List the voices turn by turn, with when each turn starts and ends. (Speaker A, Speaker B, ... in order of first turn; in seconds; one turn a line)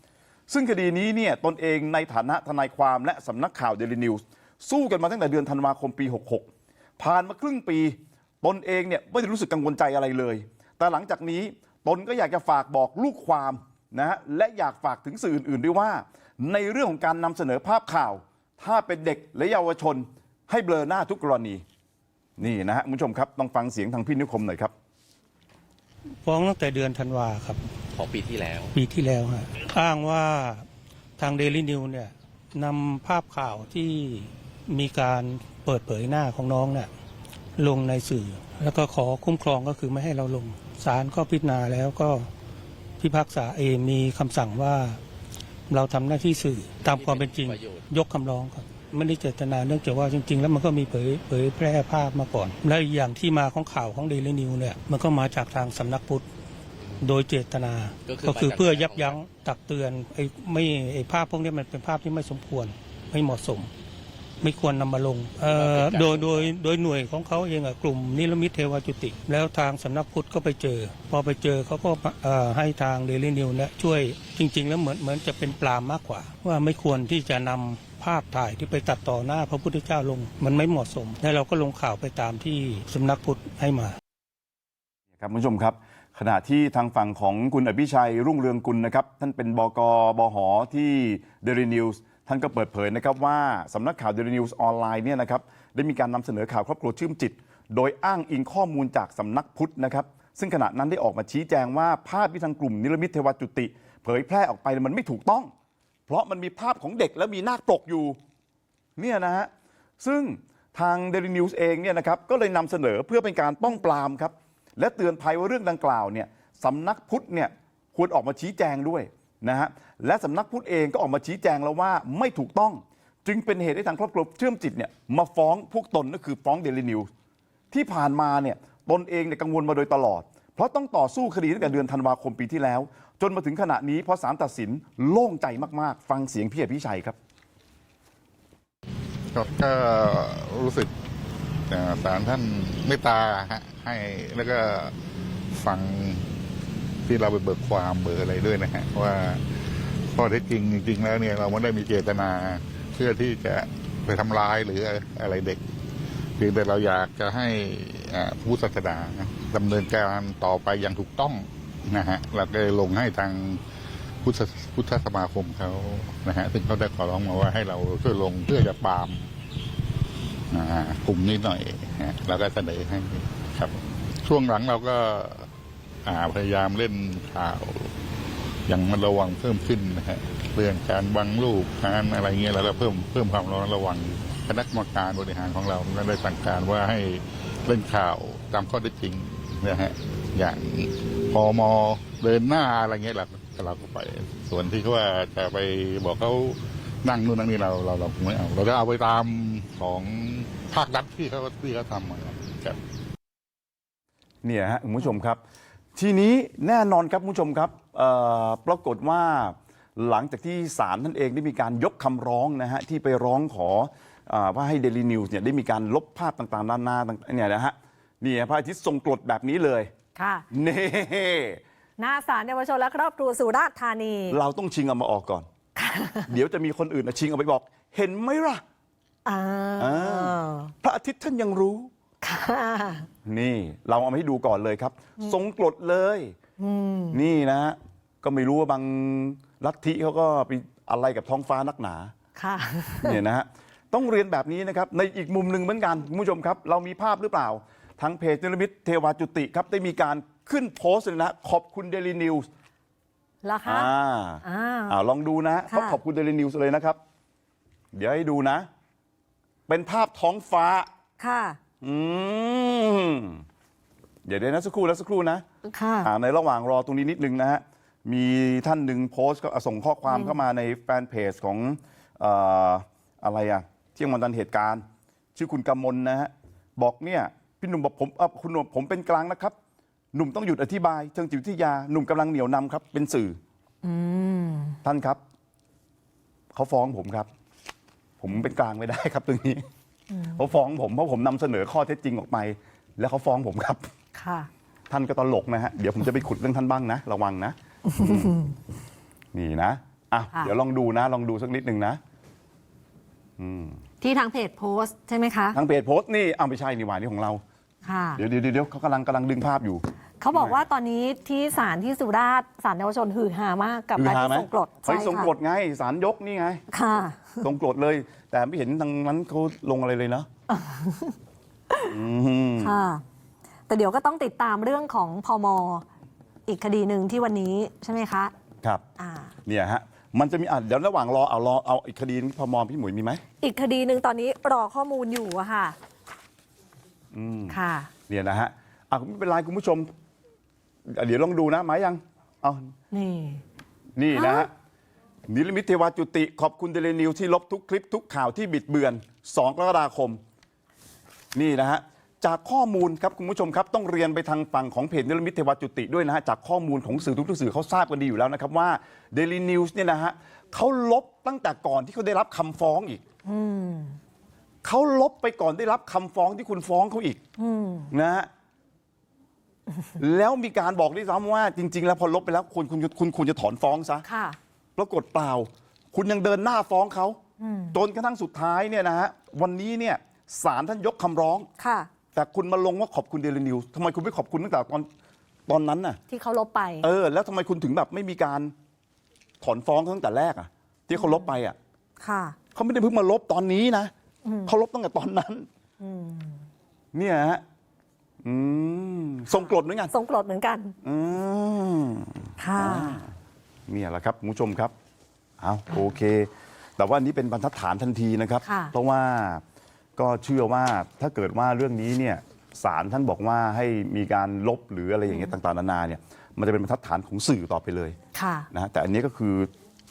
Speaker A: 0.5-6.5
Speaker A: 7.0-21.6
Speaker A: 22.4-24.7
Speaker B: 26.2-27.6
Speaker C: 27.9-28.7
Speaker B: 28.7-30.7
Speaker B: 31.2-36.9
Speaker B: 37.6-42.3
Speaker B: 43.0-45.0
Speaker B: 45.7-56.2
Speaker C: 46.8-47.8
Speaker B: 57.0-63.7
Speaker C: 58.1-59.1
Speaker B: 64.4-84.0
Speaker C: 65.5-66.5
Speaker A: 85.2-105.5
Speaker A: 106.1-108.2
Speaker A: 109.0-109.5
Speaker A: 110.0-127.1
Speaker A: 127.7-137.2
Speaker D: 139.3-140.9
Speaker D: 141.7-144.9
Speaker D: 145.5-146.3
Speaker D: 147.1-155.6
Speaker D: 156.4-163.6
Speaker D: 164.2-169.3
Speaker D: 170.5-175.5
Speaker D: 176.1-177.9
Speaker D: 178.7-202.8
Speaker A: 204.4-205.4
Speaker A: 205.9-219.9
Speaker E: 220.2-220.5
Speaker A: 220.5-221.6
Speaker E: 222.0-224.4
Speaker A: 224.3-225.5
Speaker E: 225.8-226.3
Speaker A: 226.3-228.6
Speaker E: 229.2-230.7
Speaker A: 229.8-231.9
Speaker E: 232.2-233.1
Speaker A: 233.2-236.3
Speaker E: 236.6-237.2
Speaker A: 237.1-242.1
Speaker E: 242.4-243.2
Speaker A: 243.0-252.5
Speaker E: 253.4-253.9
Speaker A: 253.7-257.0
Speaker E: 254.4-254.9
Speaker E: 255.7-256.0
Speaker A: 257.9-258.7
Speaker A: 259.7-260.9
Speaker E: 261.2-261.6
Speaker A: 261.8-263.4
Speaker A: 264.3-265.4
Speaker E: 265.6-266.1
Speaker A: 266.0-274.8
Speaker E: 270.1-270.4
Speaker A: 275.4-279.5
Speaker A: 280.1-283.4
Speaker E: 283.8-284.8
Speaker A: 284.8-285.2
Speaker A: 286.5-287.3
Speaker A: 288.2-289.6
Speaker E: 290.1-290.4
Speaker A: 290.3-293.9
Speaker E: 294.1-294.5
Speaker A: 294.9-298.4
Speaker E: 297.9-298.5
Speaker A: 299.3-302.0
Speaker A: 303.4-303.8
Speaker E: 304.0-305.6
Speaker A: 305.5-307.4
Speaker E: 307.9-308.2
Speaker A: 308.2-310.6
Speaker E: 310.2-315.3
Speaker A: 314.0-316.6
Speaker E: 316.7-317.4
Speaker A: 317.4-320.3
Speaker E: 320.5-321.2
Speaker A: 321.8-322.8
Speaker E: 322.6-323.0
Speaker E: 323.7-325.9
Speaker E: 326.5-328.3
Speaker E: 329.0-329.3
Speaker A: 329.4-333.2
Speaker E: 333.4-335.8
Speaker A: 337.1-337.6
Speaker E: 337.5-337.9
Speaker A: 338.1-339.9
Speaker A: 340.9-342.7
Speaker E: 342.9-343.4
Speaker A: 344.0-344.5
Speaker E: 344.1-344.5
Speaker A: 345.3-350.2
Speaker A: 351.4-363.0
Speaker E: 363.2-364.0
Speaker A: 364.6-367.2
Speaker E: 367.4-367.9
Speaker A: 367.9-368.3
Speaker A: 370.0-374.1
Speaker E: 374.1-374.4
Speaker A: 374.8-377.2
Speaker E: 377.4-377.8
Speaker A: 377.7-381.5
Speaker E: 381.6-381.9
Speaker A: 382.1-384.9
Speaker A: 385.5-386.0
Speaker E: 386.1-386.9
Speaker A: 386.8-388.5
Speaker A: 389.4-391.6
Speaker E: 391.0-391.3
Speaker E: 392.0-392.4
Speaker A: 392.6-393.9
Speaker E: 394.2-394.5
Speaker A: 394.5-395.5
Speaker E: 395.8-396.5
Speaker A: 396.9-397.4
Speaker A: 398.2-399.9
Speaker E: 399.3-400.8
Speaker A: 400.8-403.1
Speaker E: 402.4-403.0
Speaker A: 403.7-404.7
Speaker A: 405.4-409.4
Speaker E: 408.4-408.7
Speaker A: 410.0-418.0
Speaker E: 418.1-418.5
Speaker A: 418.5-419.5